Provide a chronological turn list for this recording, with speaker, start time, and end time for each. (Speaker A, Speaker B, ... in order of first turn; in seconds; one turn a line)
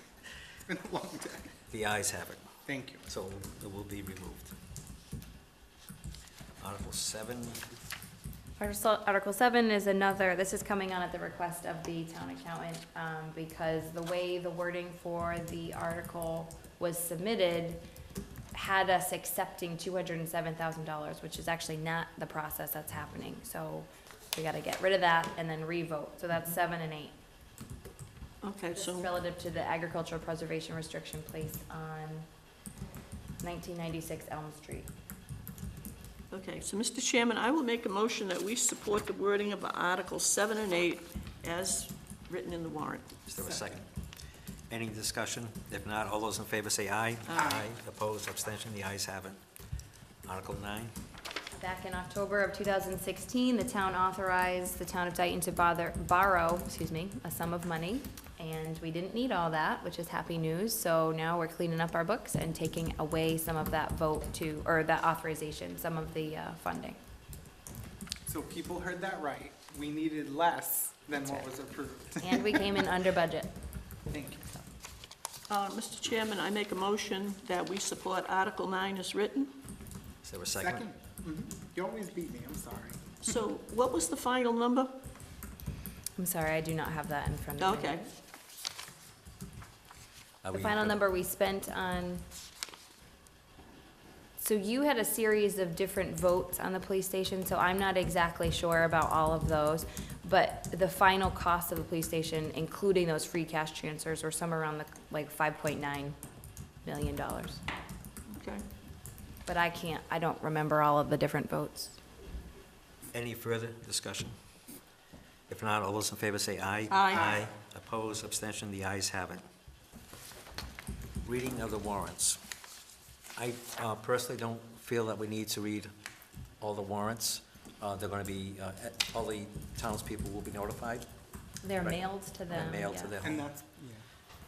Speaker A: 0.7-1.5
Speaker B: 1.7-2.4
Speaker A: 2.6-3.0
Speaker B: 3.1-4.5
Speaker B: 6.6-7.6
Speaker C: 8.6-17.8
Speaker C: 18.5-27.1
Speaker D: 28.4-29.1
Speaker C: 28.8-32.3
Speaker C: 33.4-34.9
Speaker D: 36.3-43.1
Speaker B: 43.3-43.9
Speaker A: 43.4-43.7
Speaker B: 44.7-49.4
Speaker D: 47.3-47.5
Speaker A: 47.3-47.7
Speaker B: 50.2-50.9
Speaker C: 51.6-67.0
Speaker A: 68.2-72.8
Speaker C: 72.2-73.5
Speaker A: 74.1-74.5
Speaker D: 75.5-79.5
Speaker B: 80.2-80.8
Speaker A: 80.6-83.3
Speaker D: 83.2-84.9
Speaker C: 86.2-88.0
Speaker D: 87.6-88.0
Speaker B: 90.4-91.0
Speaker C: 90.5-92.2
Speaker C: 94.4-106.2
Speaker C: 106.8-107.6
Speaker D: 108.3-108.6
Speaker C: 109.5-112.0
Speaker B: 113.1-114.3
Speaker B: 115.5-119.4
Speaker D: 116.9-117.4
Speaker B: 121.2-122.4
Speaker B: 123.3-125.9
Speaker B: 126.6-131.1
Speaker C: 131.6-133.1
Speaker B: 131.8-133.5
Speaker A: 133.2-134.0